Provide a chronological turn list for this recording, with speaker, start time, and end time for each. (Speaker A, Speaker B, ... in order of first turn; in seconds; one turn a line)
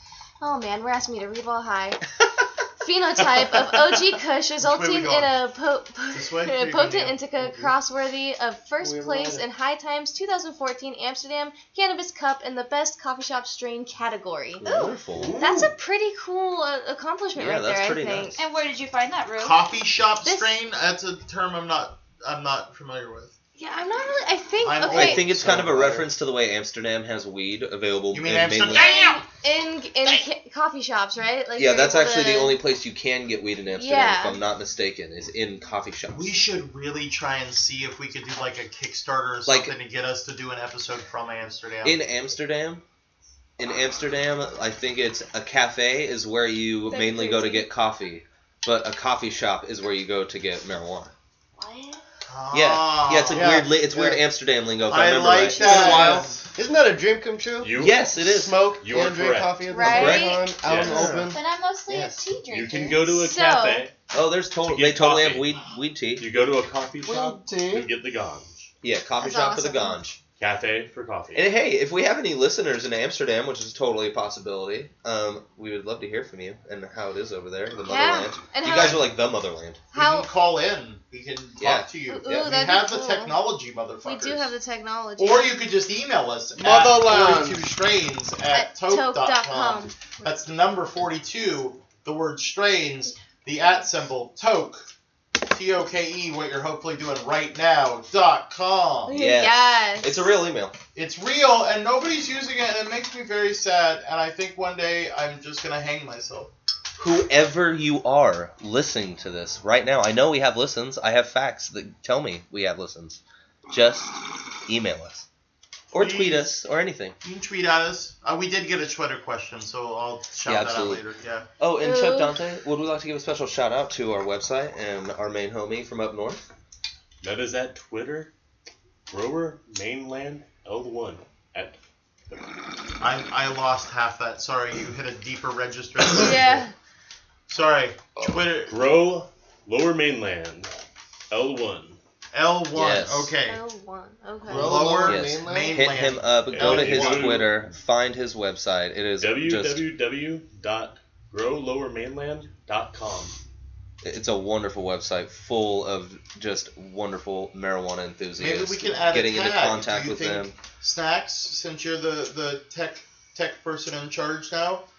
Speaker A: 0.4-2.0
Speaker A: 2.8-14.6
Speaker B: 4.6-5.4
Speaker B: 6.1-7.2
Speaker C: 7.3-7.8
Speaker C: 8.8-9.5
Speaker D: 14.6-15.4
Speaker B: 15.2-15.7
Speaker A: 15.4-18.4
Speaker D: 17.3-18.4
Speaker E: 18.4-19.6
Speaker B: 19.4-23.3
Speaker A: 20.2-20.6
Speaker A: 23.6-25.4
Speaker B: 24.6-26.1
Speaker D: 24.9-28.9
Speaker B: 28.1-29.3
Speaker A: 28.6-32.6
Speaker D: 31.6-36.4
Speaker A: 33.7-34.4
Speaker B: 36.1-42.0
Speaker D: 39.5-39.7
Speaker D: 41.8-42.8
Speaker D: 43.6-51.1
Speaker A: 46.9-47.7
Speaker E: 51.6-52.0
Speaker B: 52.3-53.7
Speaker D: 52.5-56.3
Speaker C: 53.3-54.2
Speaker B: 54.9-56.5
Speaker C: 55.4-61.4
Speaker F: 57.6-58.0
Speaker D: 57.8-58.6
Speaker F: 58.8-59.9
Speaker A: 59.7-60.5
Speaker D: 59.9-60.3
Speaker E: 59.9-60.4
Speaker F: 60.6-61.2
Speaker B: 60.9-61.3
Speaker E: 61.3-63.0
Speaker D: 61.9-62.1
Speaker F: 62.5-63.9
Speaker A: 63.0-63.9
Speaker D: 64.1-66.3
Speaker F: 64.7-65.6
Speaker F: 66.2-68.7
Speaker C: 67.0-67.9
Speaker D: 68.8-70.2
Speaker A: 69.2-70.0
Speaker F: 70.4-71.5
Speaker D: 71.3-79.8
Speaker A: 77.8-79.0
Speaker B: 79.9-84.5
Speaker A: 79.9-80.3
Speaker D: 81.6-82.5
Speaker A: 82.1-83.4
Speaker A: 84.0-85.5
Speaker B: 85.2-94.9
Speaker C: 86.5-87.7
Speaker A: 88.5-90.1
Speaker B: 95.5-99.2
Speaker A: 99.1-100.3
Speaker D: 99.1-100.7
Speaker B: 100.9-106.5
Speaker D: 107.0-115.2
Speaker D: 115.9-117.2
Speaker B: 115.9-116.5
Speaker B: 117.2-121.5
Speaker D: 120.5-121.0
Speaker D: 121.6-126.4
Speaker A: 121.8-122.4
Speaker F: 127.2-128.3
Speaker F: 129.1-131.8
Speaker B: 133.0-136.7
Speaker A: 136.1-136.7
Speaker B: 137.5-138.7
Speaker F: 138.7-140.7
Speaker F: 141.3-142.0
Speaker B: 142.3-143.6
Speaker D: 142.7-143.3
Speaker A: 143.4-145.0
Speaker B: 144.4-147.4
Speaker C: 144.5-145.8
Speaker D: 145.0-149.8
Speaker F: 146.5-147.7
Speaker F: 149.2-153.3
Speaker D: 154.0-160.5
Speaker B: 158.4-164.8